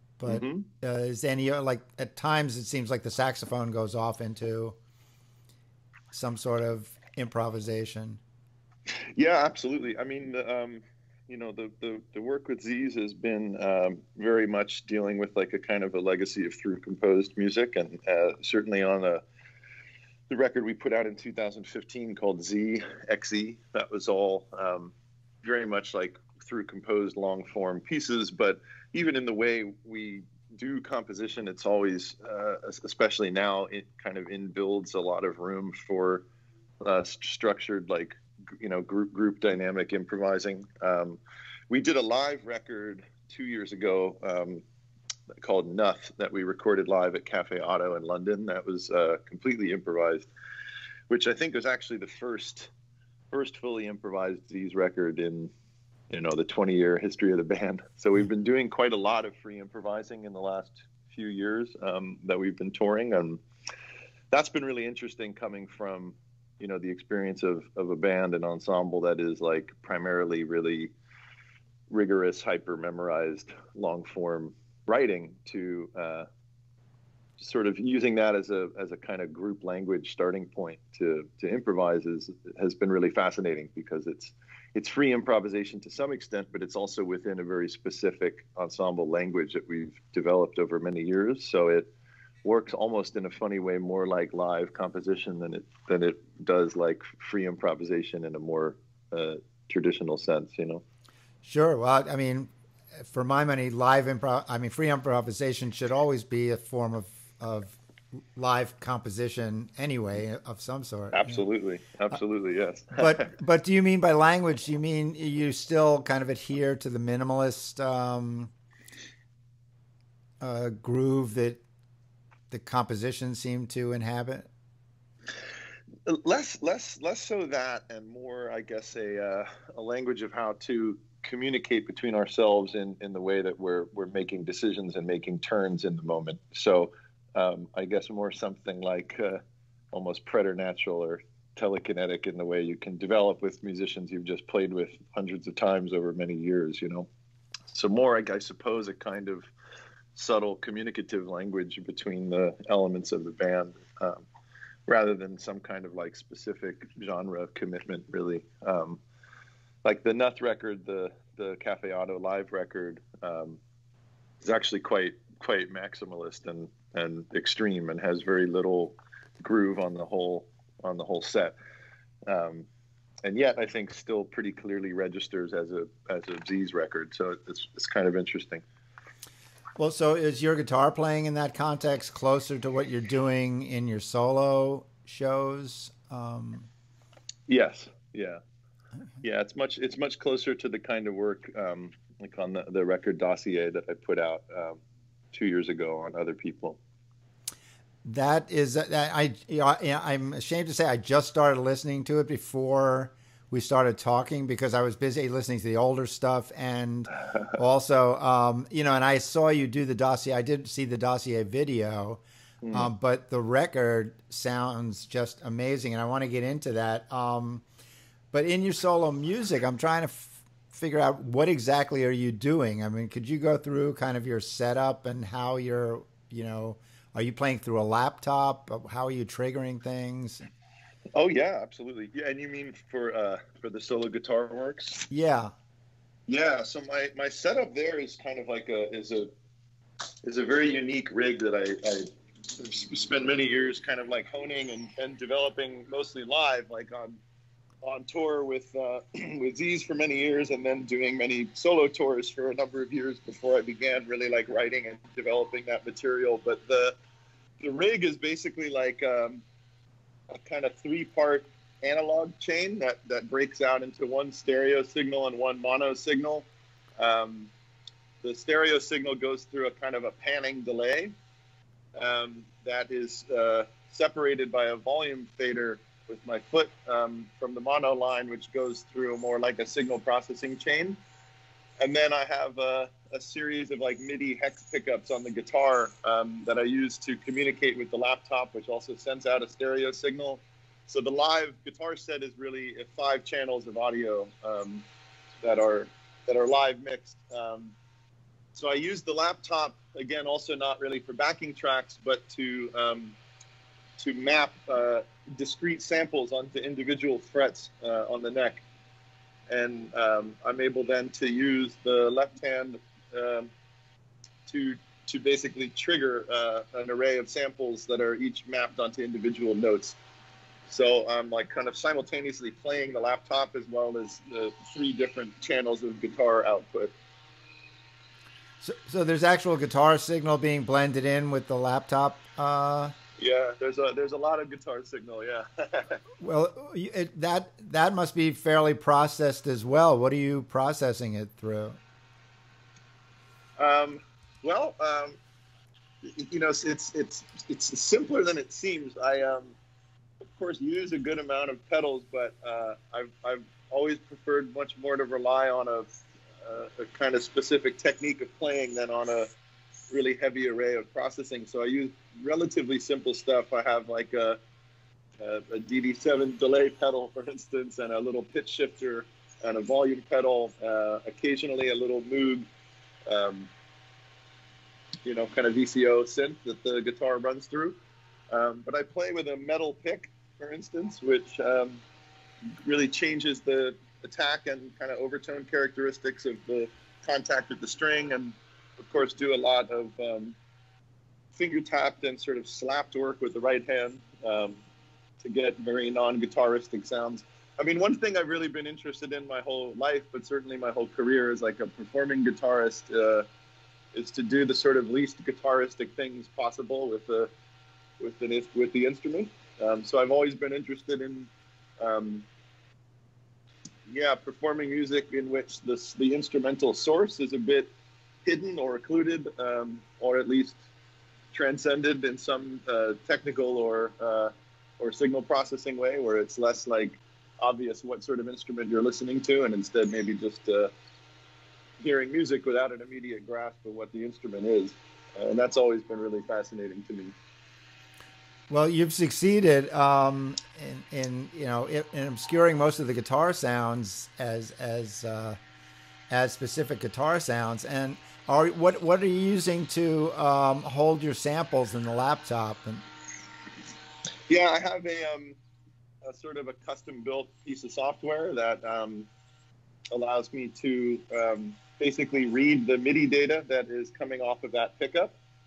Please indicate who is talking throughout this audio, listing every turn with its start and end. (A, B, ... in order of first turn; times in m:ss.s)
0:00.2-0:04.8 A
0:00.3-0:00.7 B
0:06.1-0:08.2 A
0:09.2-0:19.2 B
0:20.3-0:36.2 B
0:36.8-0:44.6 B
0:45.3-0:50.3 B
0:51.1-0:52.7 B
0:53.3-0:55.5 B
0:56.1-1:03.4 B
1:04.3-1:10.9 B
1:11.9-1:16.3 B
1:17.4-1:31.9 B
1:32.4-1:40.8 B
1:41.4-1:42.5 A
1:43.0-1:47.8 A
1:48.4-1:51.4 A
1:51.1-1:53.3 B
1:53.0-1:58.5 A
2:00.4-2:01.6 A
2:02.5-2:04.5 A
2:06.1-2:19.4 B
2:19.9-2:27.1 B
2:27.7-2:29.5 B
2:30.2-2:34.2 B
2:34.9-2:39.0 B
2:39.8-2:43.6 B
2:44.4-2:51.6 B
2:52.3-2:52.7 B
2:53.2-2:58.6 B
2:59.8-3:06.7 A
3:07.5-3:08.4 B
3:09.2-3:14.8 B
3:15.3-3:16.8 B
3:18.0-3:32.2 A
3:32.6-3:32.9 B
3:32.7-3:37.6 A
3:38.3-3:50.4 A
3:51.1-3:55.0 B
3:55.1-3:55.5 A
3:56.3-3:59.3 B
4:00.2-4:07.2 B
4:07.8-4:17.0 B
4:17.6-4:19.4 B
4:20.3-4:27.5 B
4:28.2-4:31.1 B
4:32.0-4:41.0 B
4:41.8-4:54.8 B
4:55.4-4:57.7 B
4:58.5-5:03.2 B
5:04.0-5:08.6 B
5:09.5-5:13.5 B
5:14.5-5:20.0 B
5:20.7-5:26.9 B
5:28.6-5:33.0 A
5:33.2-5:36.0 B
5:36.2-5:41.8 A
5:43.6-5:45.2 B
5:46.0-5:49.6 B
5:50.2-5:55.9 B
5:56.4-5:59.3 B
5:59.9-6:04.4 B
6:05.2-6:12.5 B
6:13.1-6:13.5 B
6:15.0-6:17.8 B
6:18.3-6:21.8 B
6:22.6-6:30.4 B
6:31.4-6:34.6 B
6:35.2-6:43.3 B
6:43.9-6:47.3 B
6:48.0-6:52.3 B
6:53.9-6:57.7 B
6:58.2-7:00.6 B
7:01.3-7:10.7 B
7:11.8-7:17.2 B
7:18.5-7:25.4 A
7:26.1-7:32.8 A
7:34.3-7:35.4 B
7:36.0-7:39.1 B
7:39.9-7:45.2 B